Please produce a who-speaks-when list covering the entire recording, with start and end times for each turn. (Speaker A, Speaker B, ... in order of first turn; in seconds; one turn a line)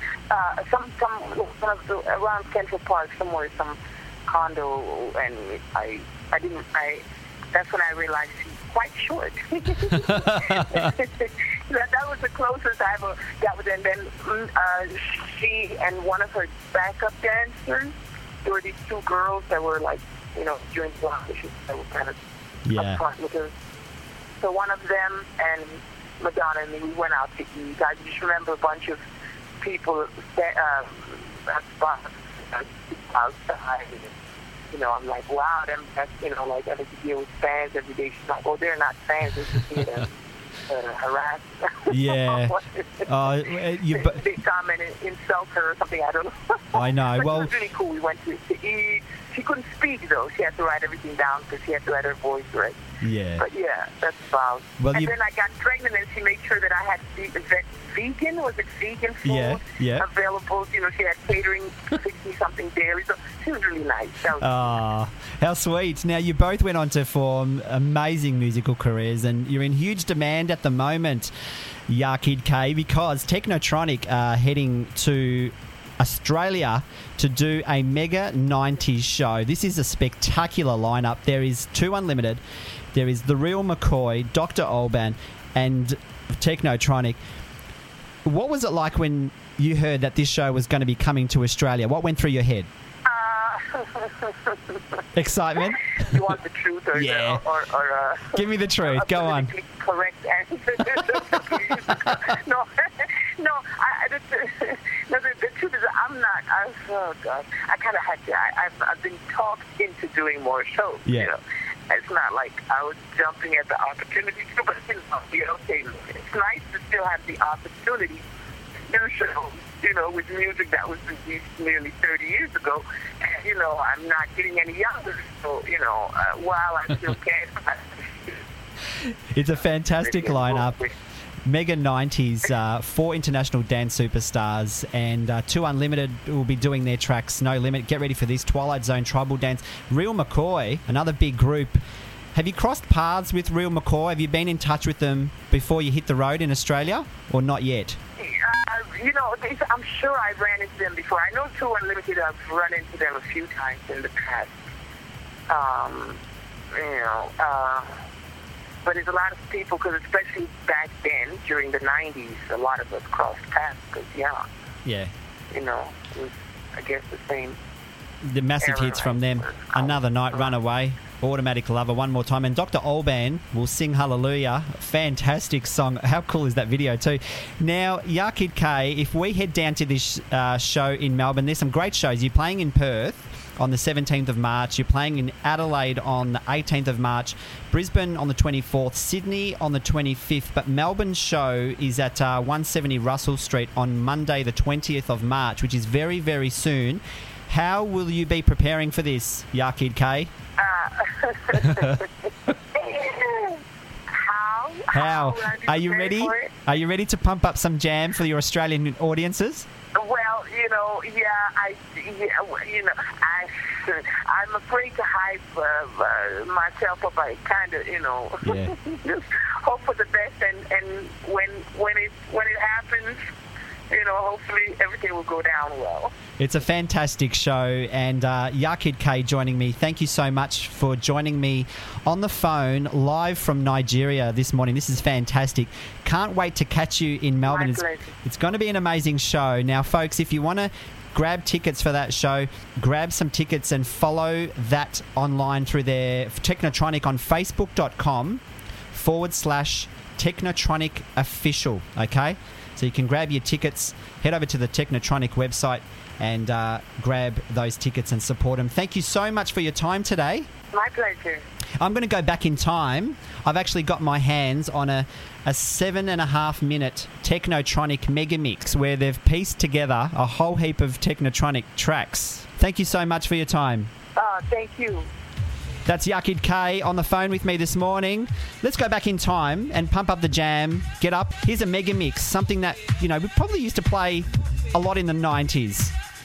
Speaker A: 0.3-22.2
Speaker B: 9.8-10.9
Speaker B: 22.7-23.0
Speaker A: 22.7-23.5
Speaker A: 24.4-29.0
Speaker A: 29.6-34.1
Speaker A: 34.7-40.1
Speaker A: 40.7-52.8
Speaker B: 41.9-44.2
Speaker B: 46.7-47.5
Speaker B: 53.0-53.5
Speaker A: 53.4-64.8
Speaker B: 54.8-55.1
Speaker B: 59.2-60.1
Speaker B: 64.4-71.3
Speaker B: 71.9-82.4
Speaker B: 82.9-87.2
Speaker B: 88.3-92.7
Speaker A: 93.0-95.0
Speaker B: 95.2-96.3
Speaker A: 96.0-118.2
Speaker B: 96.9-97.4
Speaker B: 98.3-99.5
Speaker B: 100.9-102.3
Speaker B: 111.1-111.3
Speaker A: 118.9-128.4
Speaker B: 129.3-130.8
Speaker A: 130.0-130.9
Speaker B: 131.5-141.8
Speaker B: 142.3-148.0
Speaker A: 148.2-154.6
Speaker A: 155.5-157.9
Speaker A: 158.8-164.5
Speaker B: 164.8-165.1
Speaker A: 165.5-167.6
Speaker B: 168.2-200.3
Speaker A: 168.6-170.6
Speaker A: 200.6-202.1
Speaker B: 201.5-202.0
Speaker A: 202.7-206.6
Speaker B: 204.9-209.7
Speaker A: 209.9-223.2
Speaker B: 218.4-218.8
Speaker A: 223.9-226.1
Speaker B: 226.4-260.5
Speaker A: 237.5-238.1
Speaker A: 260.7-261.5
Speaker B: 261.8-273.9
Speaker A: 274.2-275.1
Speaker B: 275.9-285.9